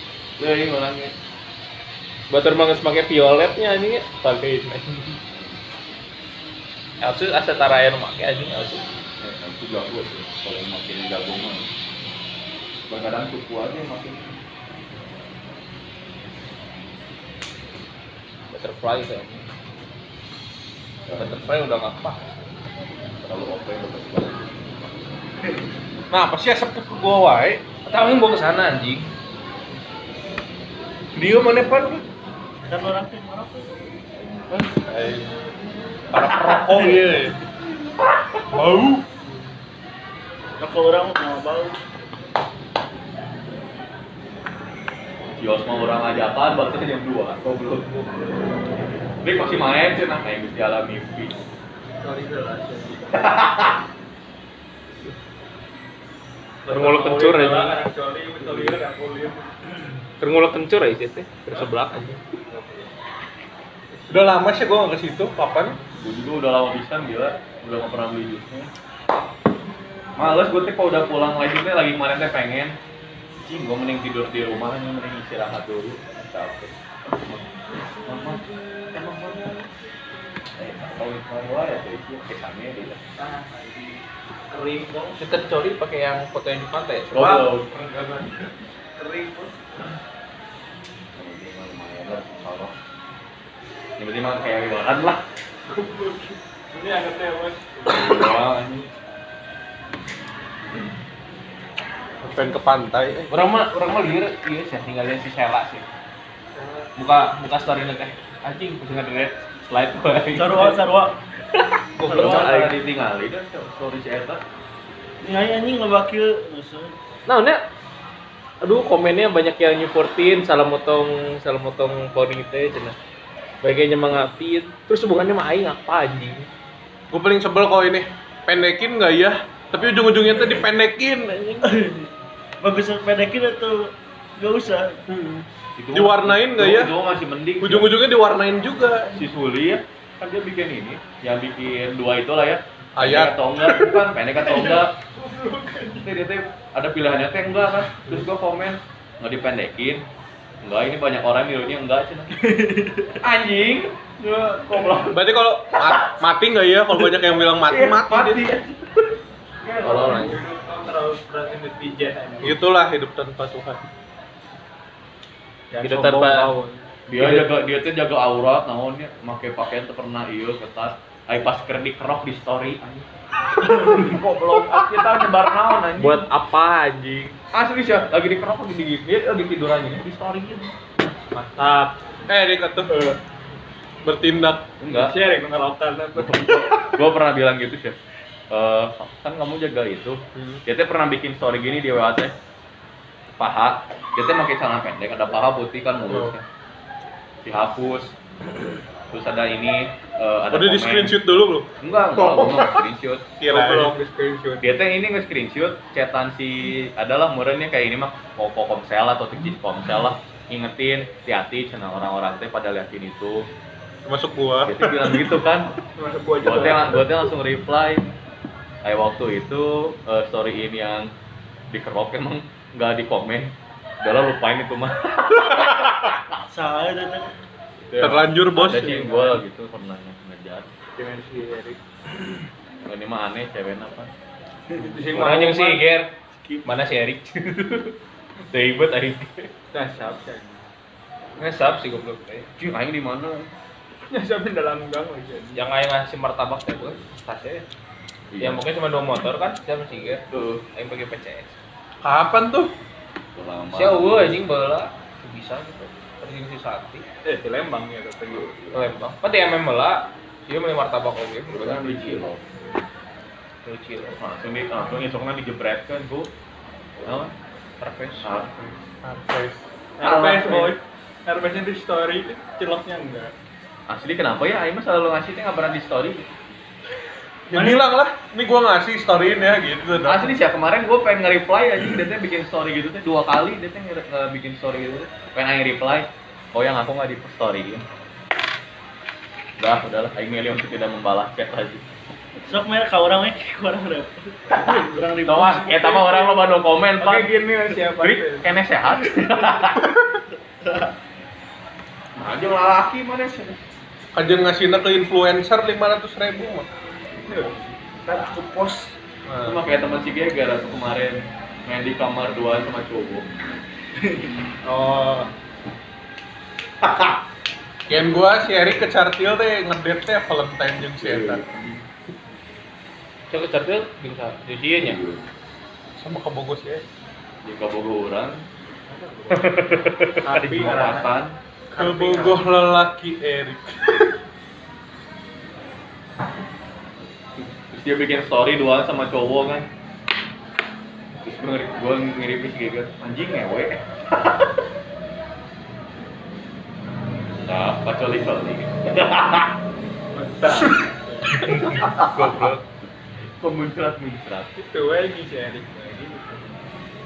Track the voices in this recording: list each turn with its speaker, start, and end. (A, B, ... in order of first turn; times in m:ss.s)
0:00.4-0:01.1 A
0:02.3-0:05.2 B
0:07.0-0:08.8 B
0:09.2-0:11.7 A
0:12.9-0:14.4 A
0:18.5-0:19.4 B
0:21.1-0:21.4 A
0:21.2-0:22.4 B
0:23.2-0:24.7 A
0:26.1-0:27.6 C
0:27.9-0:29.1 B
0:31.1-0:32.0 C
0:32.7-0:33.9 D
0:34.5-0:35.3 C
0:36.1-0:37.4 C
0:38.5-0:39.1 C
0:40.6-0:41.8 D
0:45.4-0:47.9 A
0:47.9-0:48.3 E
0:49.2-0:51.4 A
0:49.3-0:49.6 E
0:52.0-0:53.3 E
0:53.2-0:53.8 A
0:56.6-0:59.7 E
0:56.7-0:57.8 B
1:00.2-1:02.2 B
1:02.5-1:02.9 E
1:04.1-1:05.8 C
1:06.0-1:08.7 A
1:10.2-1:12.8 A
1:13.4-1:17.4 A
1:18.0-1:18.4 A
1:19.0-1:19.5 A
1:20.6-1:23.0 A
1:23.2-1:25.2 E
1:25.2-1:27.5 B
1:27.1-1:28.1 A
1:27.8-1:28.3 E
1:28.9-1:29.6 E
1:31.1-1:32.7 A
1:34.0-1:35.2 A
1:35.7-1:38.4 E
1:37.9-1:38.9 A
1:42.2-1:43.3 C
1:43.3-1:45.9 B
1:46.6-1:46.9 E
1:47.0-1:50.8 B
1:50.3-1:51.2 D
1:51.9-1:52.7 B
1:52.0-1:54.4 A
1:55.2-1:57.0 D
1:57.3-1:57.6 B
1:58.6-2:03.0 B
2:03.6-2:06.5 B
2:07.1-2:11.8 C
2:11.6-2:12.1 D
2:12.6-2:15.0 D
2:15.1-2:16.9 C
2:15.8-2:17.9 A
2:17.6-2:19.2 C
2:19.1-2:25.0 A
2:23.0-2:24.0 C
2:24.4-2:26.2 E
2:26.0-2:30.1 A
2:30.6-2:32.4 A
2:33.2-2:36.2 A
2:35.1-2:38.5 C
2:37.6-2:38.8 A
2:39.7-2:42.6 E
2:39.8-2:40.4 A
2:42.4-2:43.8 C
2:45.7-2:46.9 E
2:45.8-2:46.5 B
2:47.1-2:53.1 A
2:53.6-2:56.2 A
2:56.0-2:57.4 B
2:57.5-3:00.8 A
3:01.3-3:01.8 B
3:01.6-3:01.9 E
3:02.3-3:02.9 C
3:02.9-3:03.2 E
3:04.0-3:04.7 C
3:04.8-3:05.2 A
3:04.9-3:06.7 E
3:06.2-3:08.0 A
3:08.5-3:12.4 A
3:13.4-3:16.4 A
3:16.1-3:16.3 C
3:17.4-3:18.2 A
3:19.1-3:21.2 A
3:20.5-3:22.8 C
3:21.8-3:23.3 A
3:23.4-3:24.0 C
3:23.4-3:24.8 E
3:24.6-3:33.5 A
3:34.0-3:35.2 C
3:34.6-3:35.7 A
3:36.0-3:37.0 E
3:36.4-3:38.1 A
3:38.8-3:41.1 A
3:41.7-3:46.3 A
3:46.5-3:47.3 D
3:47.9-3:50.7 A
3:48.0-3:49.1 C
3:51.0-3:51.8 E
3:52.9-3:54.1 A
3:54.8-3:55.8 E
3:55.1-3:56.1 B
3:56.6-3:58.0 B
3:58.5-3:59.5 B
3:59.7-4:00.6 E
4:01.4-4:02.5 B
4:02.6-4:03.5 A
4:04.1-4:05.6 E
4:05.6-4:07.7 B
4:08.3-4:08.6 A
4:08.4-4:11.6 B
4:10.3-4:10.6 A
4:12.0-4:12.7 C
4:13.4-4:14.3 A
4:13.7-4:17.0 B
4:17.2-4:18.6 E
4:18.3-4:18.8 A
4:18.7-4:22.2 B
4:21.5-4:22.5 A
4:23.6-4:24.2 B
4:24.2-4:26.3 A
4:27.0-4:27.3 A
4:27.8-4:28.3 B
4:28.2-4:28.8 A
4:29.0-4:29.7 C
4:30.0-4:33.3 E
4:30.0-4:30.7 A
4:33.9-4:36.3 A
4:37.5-4:37.8 E
4:37.5-4:40.4 C
4:40.0-4:47.9 A
4:49.6-4:51.8 A
4:52.5-4:56.5 D
4:54.6-4:59.9 A
4:57.0-4:58.6 E
5:02.2-5:03.6 A
5:04.1-5:06.7 C
5:07.3-5:07.7 E
5:08.0-5:09.0 D
5:09.4-5:13.3 A
5:14.6-5:15.3 E
5:16.8-5:17.2 A
5:17.9-5:21.4 C
5:21.0-5:21.8 A
5:23.3-5:25.0 B
5:24.8-5:25.3 A
5:26.0-5:26.7 C
5:27.4-5:28.5 A
5:28.9-5:31.2 E
5:30.2-5:31.4 A
5:31.7-5:32.4 E
5:31.7-5:34.1 C
5:37.4-5:39.7 A
5:41.2-5:44.3 A
5:47.4-5:49.6 A
5:50.1-5:51.4 E
5:51.3-5:52.6 C
5:51.7-5:52.5 A
5:52.2-5:52.5 B
5:53.4-5:54.6 A
5:54.6-5:56.6 E